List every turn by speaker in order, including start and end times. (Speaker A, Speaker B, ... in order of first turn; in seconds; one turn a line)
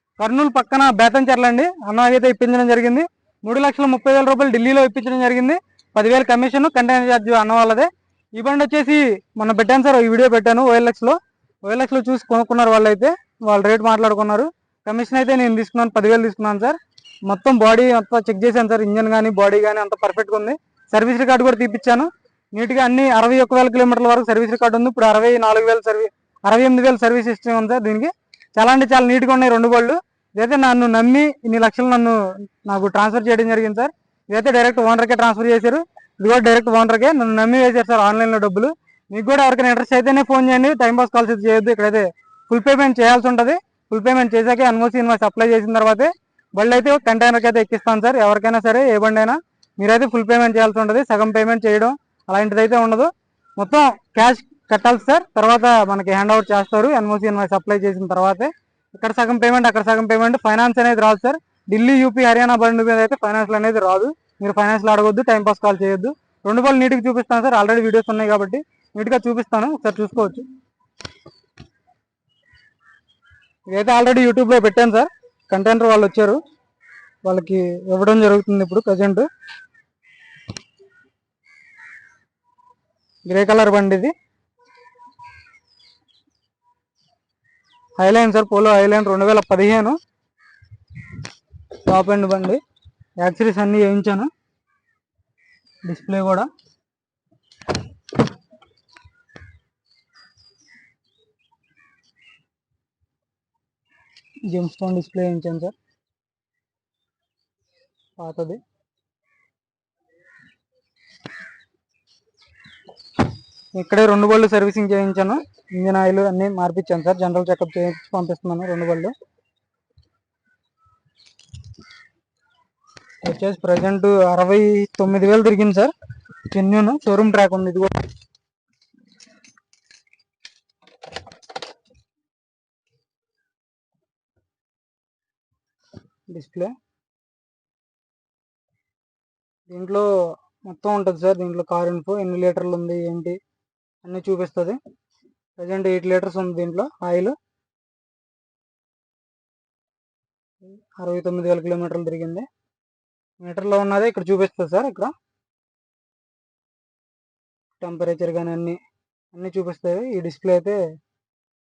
Speaker A: 0.2-70.5
Speaker A: 73.7-76.4
Speaker A: 77.2-79.3
Speaker A: 83.3-84.1
Speaker A: 88.0-90.0
Speaker A: 91.7-92.6
Speaker A: 93.2-94.3
Speaker A: 95.8-96.5
Speaker A: 104.5-105.8
Speaker A: 108.2-108.6
Speaker A: 113.8-119.1
Speaker A: 123.2-125.9
Speaker A: 126.5-128.0
Speaker A: 136.3-136.8
Speaker A: 139.7-140.1
Speaker A: 140.7-143.4
Speaker A: 144.0-144.8
Speaker A: 145.6-147.4
Speaker A: 151.0-152.5
Speaker A: 153.4-155.1
Speaker A: 157.8-158.8
Speaker A: 159.3-160.8